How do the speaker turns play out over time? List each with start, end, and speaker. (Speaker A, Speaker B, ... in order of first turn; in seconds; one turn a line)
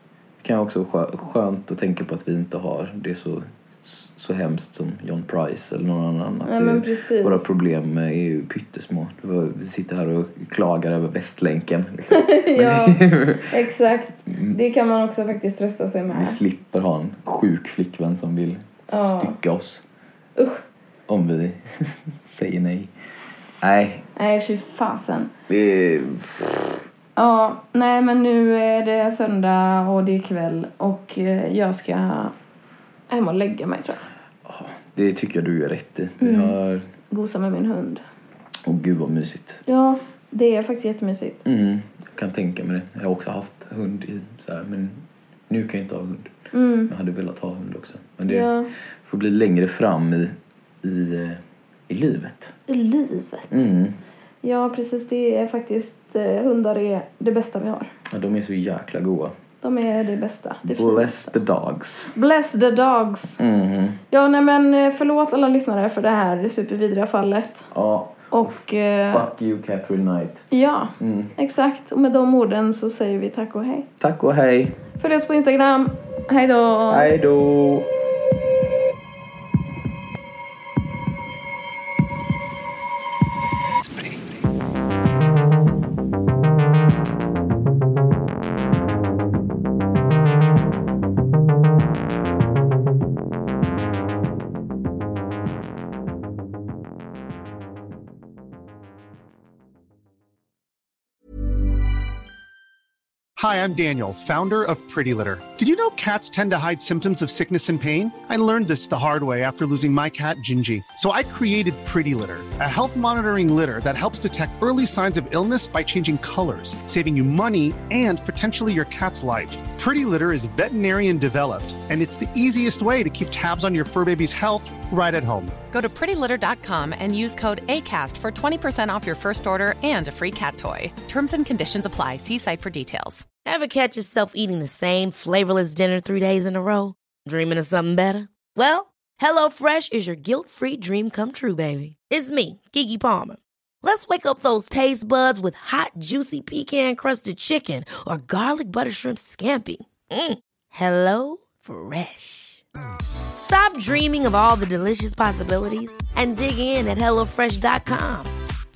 Speaker A: 0.4-13.5
Speaker B: 6.4-7.5
Speaker B: 12.1-16.4
Speaker A: 14.3-14.6
Speaker A: 16.1-19.8
Speaker B: 18.9-19.4
Speaker B: 20.4-20.6
Speaker A: 21.1-22.9
Speaker A: 23.6-24.0
Speaker B: 24.1-25.3
Speaker A: 25.5-26.8
Speaker B: 27.1-32.3
Speaker B: 33.1-34.0
Speaker A: 34.4-36.9
Speaker B: 36.2-36.5
Speaker B: 37.1-38.0
Speaker A: 38.6-39.6
Speaker B: 39.6-41.4
Speaker A: 41.4-46.3
Speaker B: 46.5-46.9
Speaker A: 46.9-52.5
Speaker B: 48.3-48.7
Speaker B: 52.7-53.6
Speaker A: 53.5-54.0
Speaker B: 54.4-57.9
Speaker A: 58.1-59.3
Speaker B: 59.6-61.3
Speaker A: 60.6-62.1
Speaker B: 62.1-63.4
Speaker A: 63.4-64.0
Speaker B: 64.1-67.7
Speaker A: 67.7-68.6
Speaker B: 68.3-69.3
Speaker A: 69.1-70.5
Speaker B: 70.5-73.8
Speaker A: 71.0-71.3
Speaker A: 74.0-74.8
Speaker B: 75.0-77.1
Speaker A: 76.9-77.9
Speaker C: 103.4-125.6
Speaker D: 125.7-133.3
Speaker E: 133.4-152.6
Speaker E: 153.4-158.3